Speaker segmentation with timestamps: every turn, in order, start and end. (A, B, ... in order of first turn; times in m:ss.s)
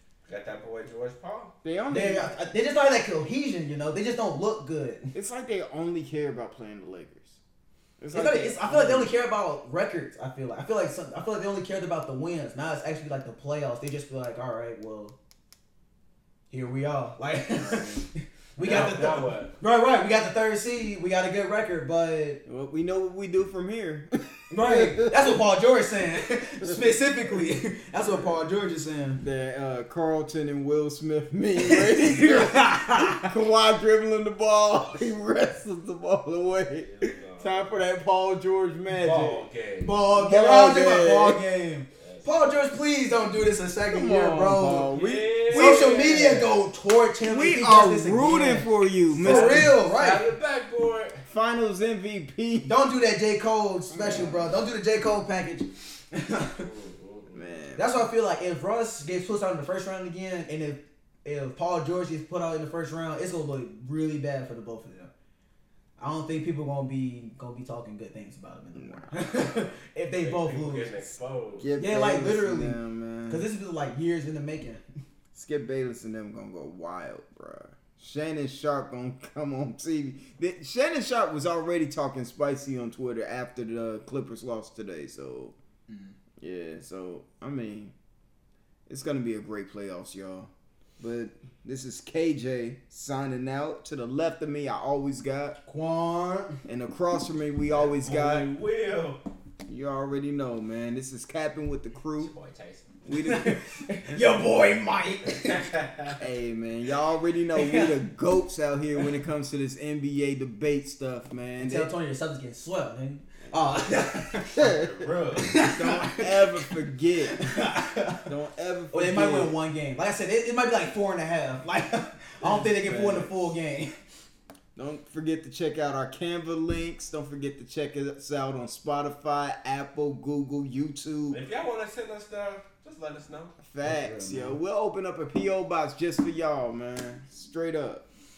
0:00.3-0:01.5 A
0:01.6-0:02.3 B
0:01.9-0:05.1 C
0:05.1-0:07.4 B
0:08.0-0:09.1 B
0:08.1-0:15.1 C
0:16.5-0:22.4 C
0:17.6-0:18.1 B
0:18.6-0:19.5 A
0:22.4-0:25.4 B
0:24.5-0:29.2 C
0:28.0-0:28.4 B
0:29.2-0:39.4 B
0:31.6-0:33.3 C
0:36.7-0:37.8 A
0:38.9-0:40.0 A
0:39.8-0:44.9 C
0:40.1-0:41.4 B
0:42.0-0:42.3 A
0:43.9-0:46.6 B
0:44.9-0:46.6 A
0:45.5-0:50.3 C
0:47.2-0:49.8 B
0:49.2-0:51.2 A
0:51.3-0:52.7 B
0:52.7-0:56.7 C
0:53.9-0:54.6 B
0:56.5-0:57.4 A
0:57.3-0:57.9 B
0:57.8-1:05.1 C
1:06.0-1:11.0 C
1:08.7-1:09.1 B
1:10.2-1:11.7 A
1:11.6-1:13.5 B
1:11.8-1:14.8 C
1:15.3-1:25.5 B
1:25.9-1:26.1 C
1:26.4-1:27.9 B
1:28.9-1:35.6 B
1:35.6-1:36.6 C
1:36.6-1:38.5 B
1:37.7-1:39.2 A
1:39.7-1:42.3 B
1:42.1-1:42.9 A
1:43.0-1:43.6 B
1:43.2-1:45.6 C
1:45.2-1:46.2 A
1:46.2-1:51.9 B
1:47.5-1:47.9 C
1:51.6-1:54.7 C
1:53.4-1:53.9 B
1:54.5-1:55.6 A
1:54.6-1:54.9 B
1:55.4-1:56.7 C
1:55.7-1:57.6 B
1:57.3-1:58.2 C
1:58.2-1:59.5 B
1:58.9-2:03.9 C
2:02.4-2:03.3 B
2:04.8-2:11.4 B
2:11.3-2:13.6 A
2:13.6-2:18.0 B
2:13.8-2:14.6 C